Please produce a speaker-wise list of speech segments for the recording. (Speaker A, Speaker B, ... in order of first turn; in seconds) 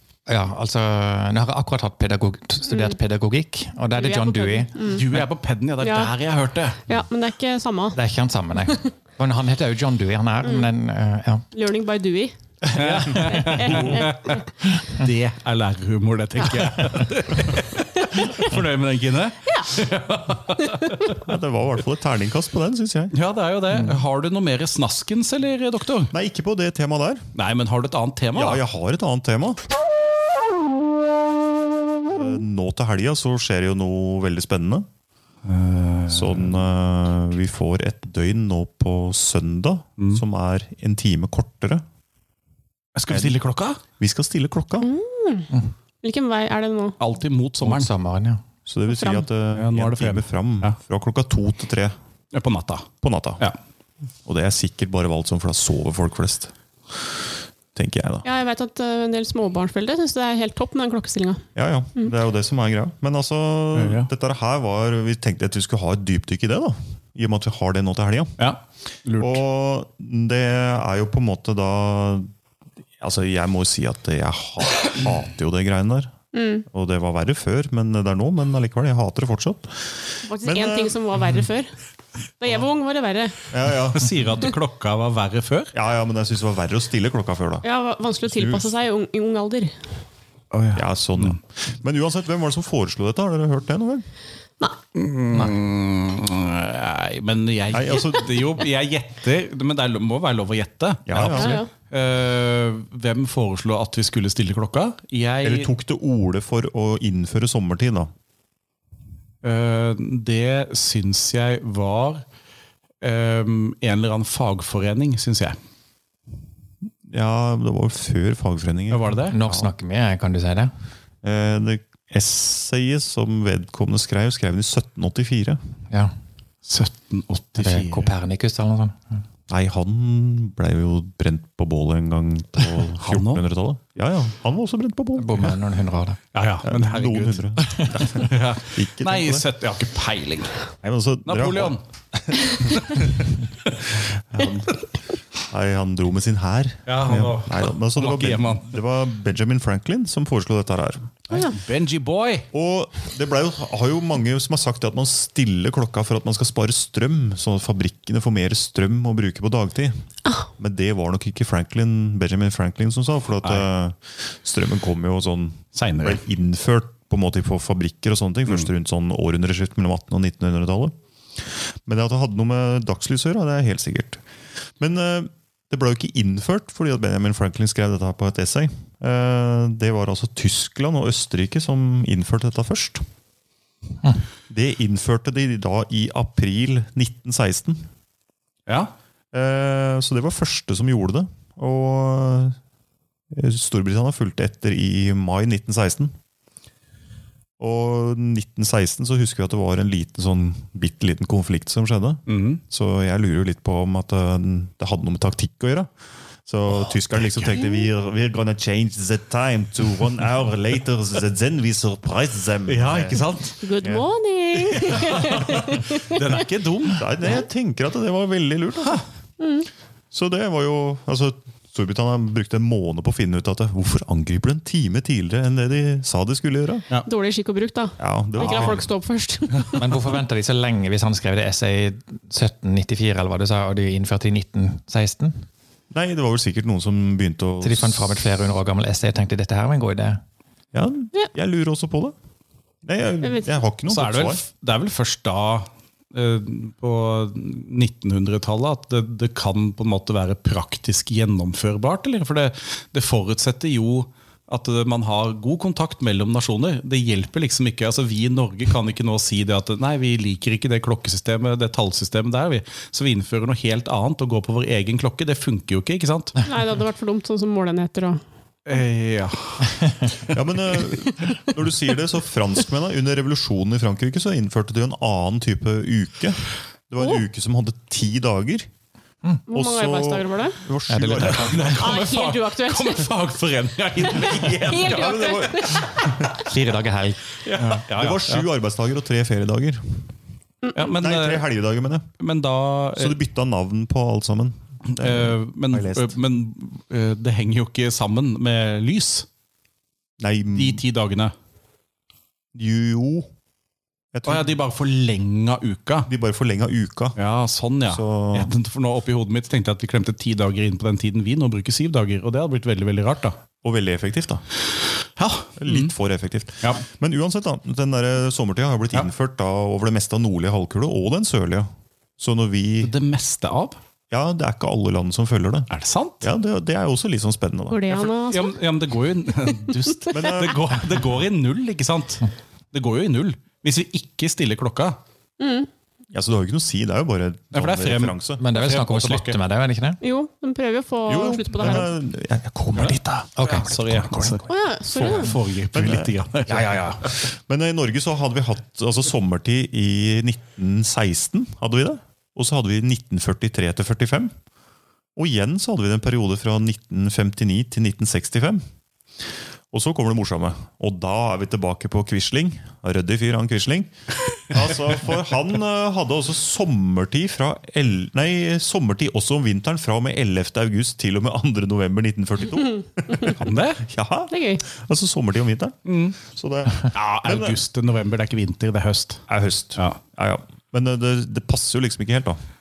Speaker A: 0.3-4.9, 7.9-11.4, 12.6-14.0, 14.7-15.1, 16.6-17.0, 47.6-48.4, 119.3-120.7, 127.6-129.2, 135.2-136.2, 137.6-138.0, 229.7-235.4, 237.6-240.2, 280.9-281.6, 286.4-287.2, 338.4-340.0, 343.4-344.3, 346.5-347.0
Speaker B: 3.9-5.0, 5.8-6.1, 6.9-8.0, 10.4-10.7, 11.5-12.3, 13.2-14.4, 19.4-19.8, 20.6-21.1, 44.8-45.5, 46.0-47.0, 48.9-49.3, 58.2-61.4, 76.3-76.7, 80.2-81.7, 82.4-83.4, 87.6-89.7, 101.3-101.7, 213.6-216.4, 219.4-219.7, 227.1-229.9, 243.2-243.5, 266.4-268.2, 279.5-280.6, 281.8-283.1, 284.0-286.4, 290.6-290.9, 327.7-328.5, 329.7-330.2, 335.4-335.7, 340.0-341.9, 344.5-345.4, 374.3-374.6
Speaker C: 4.9-6.8, 12.8-21.2, 23.1-26.1, 27.3-28.6, 35.4-36.6, 40.0-40.2, 43.0-43.8, 47.0-47.9, 49.5-50.8, 52.3-53.6, 63.7-64.1, 68.4-69.4, 83.9-85.7, 90.5-91.4, 94.9-105.7, 109.4-112.2, 113.0-115.5, 118.9-119.3, 126.6-128.1, 133.0-133.4, 136.3-140.6, 141.2-141.8, 142.7-143.1, 146.9-148.8, 151.3-152.5, 163.4-163.7, 165.7-166.2, 188.7-188.9, 202.3-202.6, 206.7-207.6, 212.7-213.6, 214.8-217.1, 243.9-266.4, 268.6-270.4, 281.2-285.3, 287.4-288.5, 290.7-291.5, 292.2-293.2, 294.9-299.3, 300.5-301.3, 304.2-306.1, 307.2-313.4, 315.1-315.9, 322.8-323.8, 325.7-326.3, 327.9-335.0, 337.5-339.4, 342.8-347.1, 373.4-373.8, 375.9-376.2, 376.9-379.2
Speaker D: 21.2-23.1, 26.1-27.2, 28.3-29.6, 32.1-34.9, 36.1-41.8, 43.1-43.4, 44.0-44.9, 48.6-51.9, 53.0-53.5, 54.2-57.1, 57.7-58.2, 61.5-68.4, 69.2-72.3, 73.0-76.1, 76.7-81.0, 83.5-84.4, 85.7-87.6, 88.2-88.7, 90.7-94.0, 97.7-98.5, 101.0-101.6, 105.4-108.1, 117.1-119.7, 121.2-125.6, 129.5-135.5, 136.6-139.4, 140.8-143.4, 143.9-144.8, 145.5-151.1, 152.5-160.0, 160.6-174.2, 174.8-183.0, 184.5-187.9, 189.3-192.6, 193.3-196.1, 197.6-205.9, 206.4-213.2, 213.8-214.1, 215.2-215.6, 216.9-219.0, 220.1-226.8, 228.0-228.8, 235.9-238.1, 240.7-242.1, 242.8-244.4, 270.3-278.7, 279.5-281.9, 284.3-286.3, 287.9-290.1, 290.9-292.1, 292.9-296.1, 300.2-300.8, 302.5-303.3, 304.1-304.5, 306.1-307.2, 307.9-308.5, 313.6-314.4, 315.6-322.9, 324.1-325.7, 326.2-328.0, 330.1-330.8, 336.1-338.4, 341.1-344.3, 345.0-354.3, 355.1-358.6, 359.7-377.6, 379.3-382.4